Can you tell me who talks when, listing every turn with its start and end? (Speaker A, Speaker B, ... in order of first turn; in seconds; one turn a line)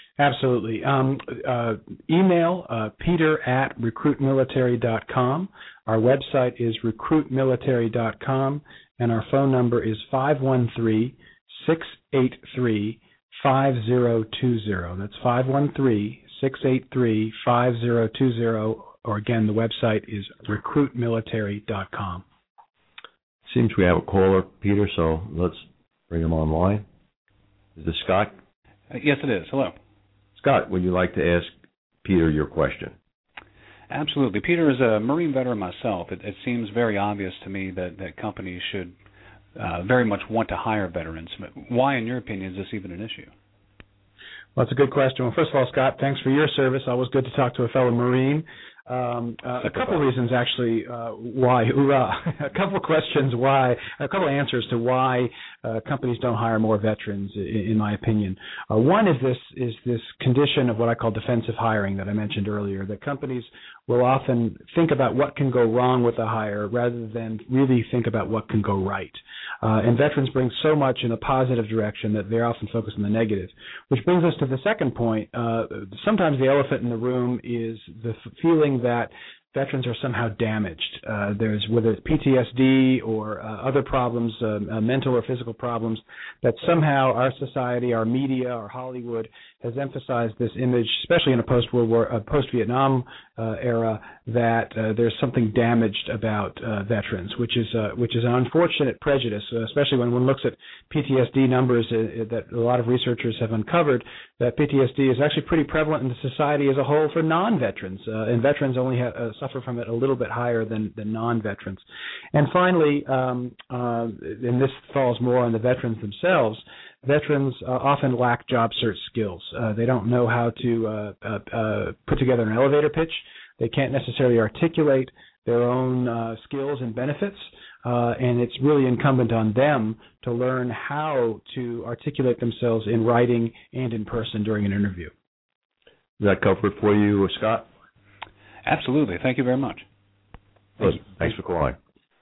Speaker A: 0.2-22.2
Speaker B: 23.5-26.9
Speaker B: 27.8-28.4
Speaker C: 28.9-29.8
Speaker B: 30.4-31.5
Speaker B: 32.0-33.0
Speaker C: 33.9-39.0
Speaker C: 39.6-43.3
Speaker A: 44.6-111.8
Speaker A: 112.3-135.1
Speaker B: 136.2-137.7
Speaker C: 138.6-139.8
Speaker B: 140.8-141.8